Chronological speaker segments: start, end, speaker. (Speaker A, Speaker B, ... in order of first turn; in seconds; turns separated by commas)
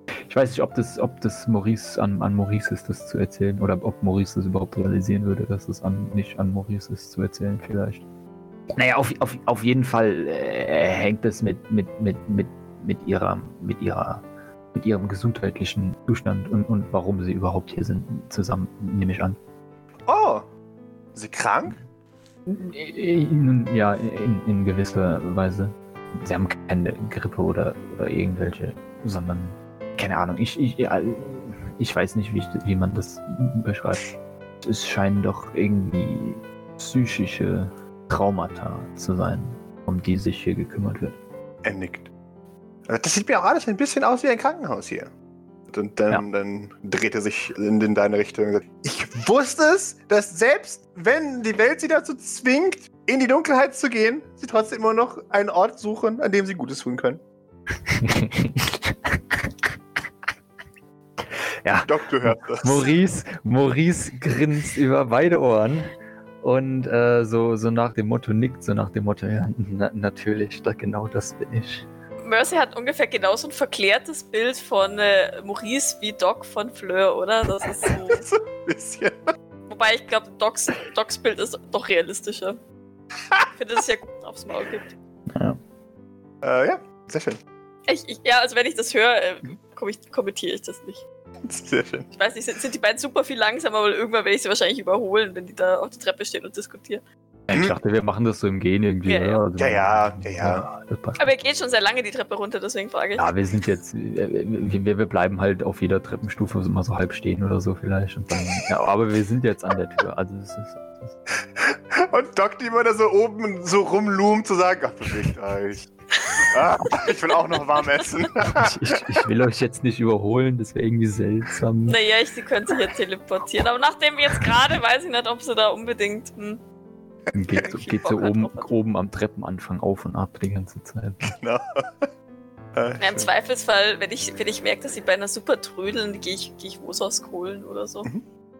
Speaker A: 0.2-8.0, Speaker A: 8.7-19.4, Speaker B: 20.1-20.4, Speaker B: 21.1-21.8, Speaker A: 22.4-34.0, Speaker A: 34.6-41.2, Speaker B: 41.6-42.1, Speaker B: 42.9-45.1, Speaker B: 45.7-57.2, Speaker A: 57.9-59.7, Speaker A: 61.6-71.9, Speaker B: 61.8-62.9, Speaker C: 72.2-78.2, Speaker B: 77.8-79.3, Speaker C: 79.7-82.6, Speaker C: 83.5-84.9, Speaker A: 85.3-85.6, Speaker B: 86.4-87.4, Speaker C: 87.9-91.0, Speaker B: 91.5-92.1, Speaker C: 92.1-97.0, Speaker A: 97.5-101.3, Speaker C: 99.0-99.4, Speaker B: 99.6-100.7, Speaker C: 101.2-103.3, Speaker A: 103.2-111.2, Speaker B: 111.6-119.1, Speaker A: 118.4-122.0, Speaker C: 121.8-126.6, Speaker A: 127.3-131.3, Speaker C: 127.5-128.7, Speaker B: 131.2-132.1, Speaker B: 132.8-133.3, Speaker C: 133.0-138.1